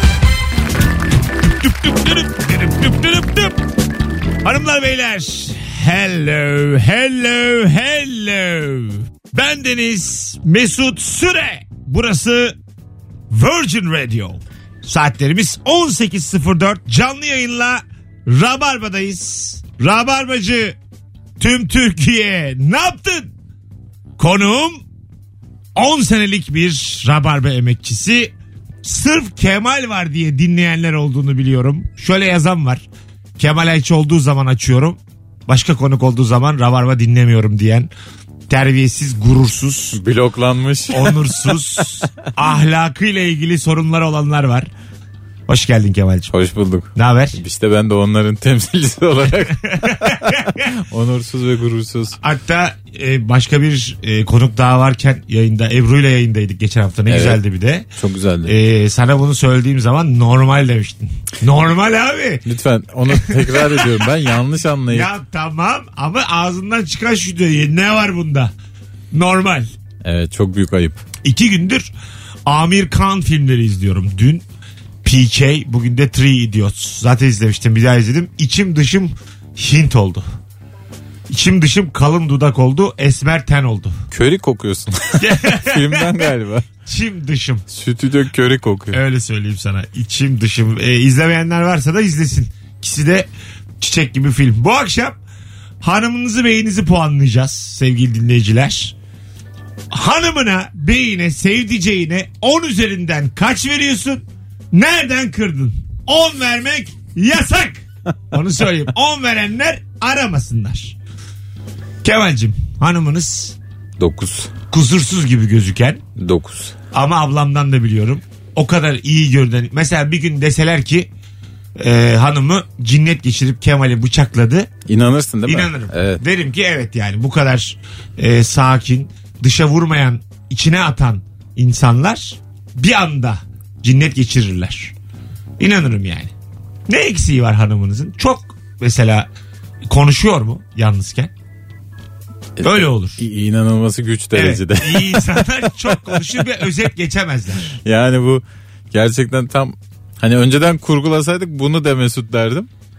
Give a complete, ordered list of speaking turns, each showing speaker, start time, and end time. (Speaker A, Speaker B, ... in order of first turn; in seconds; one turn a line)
Speaker A: 1.5-3.6
Speaker A: 4.4-12.6
Speaker A: 13.3-20.8
Speaker A: 21.4-23.3
Speaker A: 24.2-24.8
Speaker A: 25.8-32.8
Speaker A: 33.4-37.9
Speaker A: 38.5-40.0
Speaker B: 39.9-41.2
Speaker A: 40.9-44.7
Speaker A: 45.5-46.3
Speaker B: 46.3-52.2
Speaker A: 47.0-47.4
Speaker A: 49.6-50.7
Speaker A: 52.2-57.9
Speaker B: 57.1-57.4
Speaker B: 58.0-58.5
Speaker A: 58.5-62.4
Speaker B: 62.5-65.1
Speaker A: 63.1-64.0
Speaker A: 64.9-68.5
Speaker A: 69.1-69.7
Speaker B: 70.0-71.0
Speaker A: 71.2-71.9
Speaker A: 72.5-74.4
Speaker A: 75.0-80.3
Speaker A: 81.3-84.0
Speaker B: 84.1-86.7
Speaker A: 85.2-86.3
Speaker A: 86.9-87.6
Speaker B: 87.7-89.0
Speaker A: 88.9-93.3
Speaker A: 93.8-95.2
Speaker A: 95.8-99.0
Speaker A: 99.9-111.0
Speaker A: 112.0-113.6
Speaker B: 114.0-114.5
Speaker A: 114.7-116.0
Speaker B: 116.2-116.8
Speaker A: 116.9-121.1
Speaker A: 121.8-124.7
Speaker B: 124.9-126.2
Speaker A: 125.5-134.9
Speaker A: 135.6-136.3
Speaker A: 136.9-139.3
Speaker A: 139.9-141.3
Speaker B: 142.6-145.3
Speaker A: 142.6-143.2
Speaker A: 144.3-147.8
Speaker B: 147.8-152.7